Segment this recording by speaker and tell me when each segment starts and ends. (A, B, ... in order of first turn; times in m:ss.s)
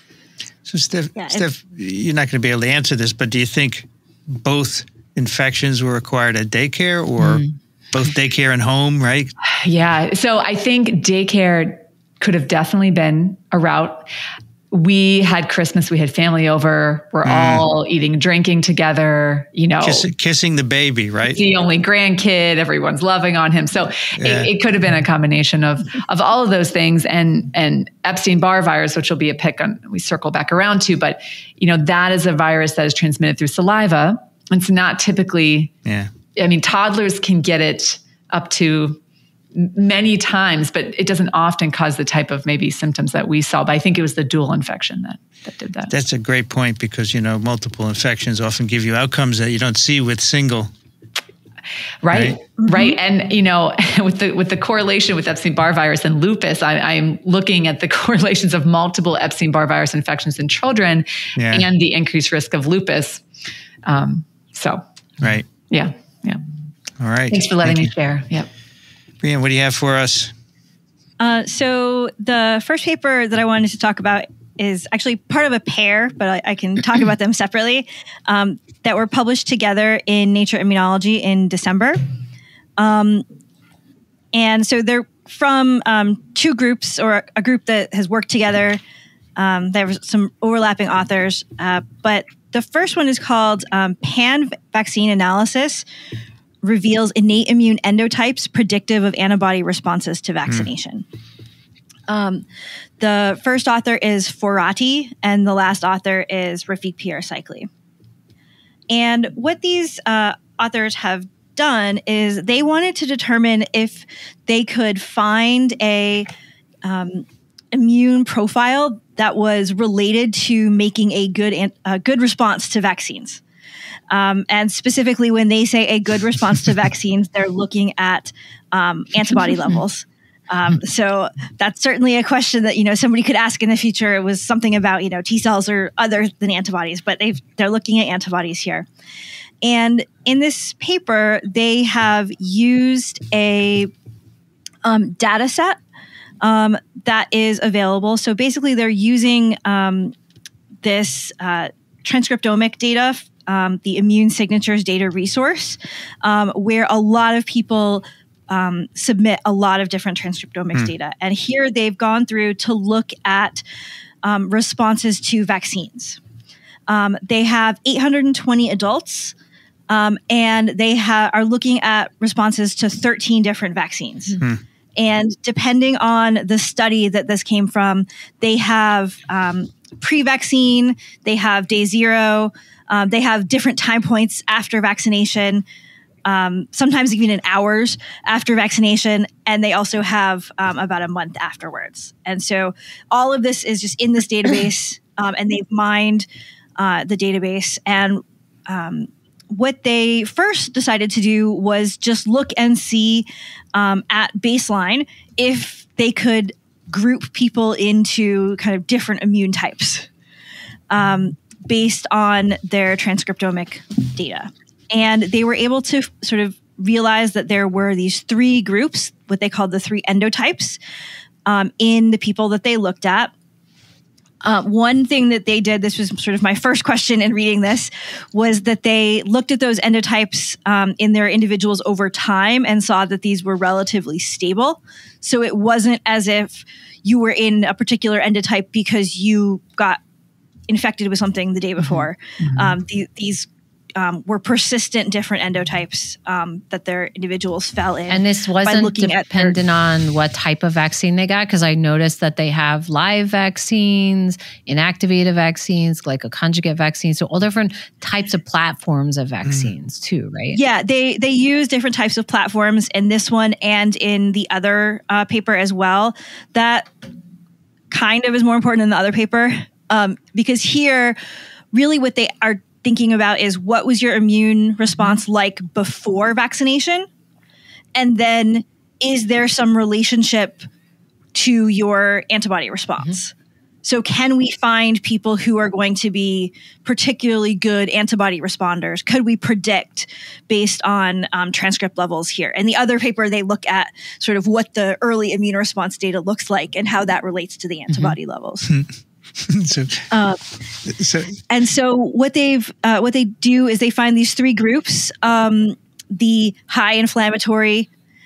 0:00.7-0:09.3 A
0:01.2-0:01.5 B
0:09.4-0:14.1 C
0:14.7-0:20.1 C
0:17.2-0:17.6 A
0:19.8-0:21.4 A
0:21.3-0:35.7 C
0:24.2-0:24.5 A
0:35.8-0:36.1 A
0:36.4-0:39.0 C
0:39.5-0:45.9 C
0:45.9-0:50.7 A
0:52.0-1:03.2 C
0:52.1-0:52.4 A
1:01.4-1:01.7 A
1:03.8-1:04.8 C
1:05.2-1:05.5 A
1:05.7-1:06.4 C
1:07.0-1:07.9 A
1:07.3-1:08.5 C
1:09.2-1:10.3 A
1:11.2-1:22.0 B
1:22.8-1:23.3 B
1:24.3-1:28.8 B
1:29.4-1:35.8 B
1:36.6-1:41.0 B
1:42.1-1:42.5 B
1:43.0-1:47.7 B
1:48.9-1:56.3 B
1:56.8-2:03.4 B
2:04.1-2:18.9 B
2:19.6-2:23.9 B
2:24.8-2:25.8 B
2:26.4-2:30.1 B
2:30.8-2:43.6 B
2:44.2-2:46.2 B
2:46.9-2:49.3 B
2:49.9-2:54.4 B
2:55.0-3:05.6 B
3:06.2-3:16.3 B
3:16.8-3:30.1 B
3:30.9-3:40.8 B
3:41.5-3:43.3 B
3:44.4-4:00.0 B
4:00.7-4:09.6 B
4:02.4-4:02.8 C
4:08.1-4:20.6 D
4:19.4-4:19.7 A
4:20.5-4:26.9 B
4:27.9-4:31.2 B
4:31.7-4:37.1 B
4:38.0-4:40.7 B
4:41.3-4:43.3 B
4:43.8-4:58.7 B
4:57.9-4:58.2 D
4:58.7-5:00.1 A
5:00.1-5:00.4 B
5:00.9-5:01.4 A
5:01.5-5:07.9 B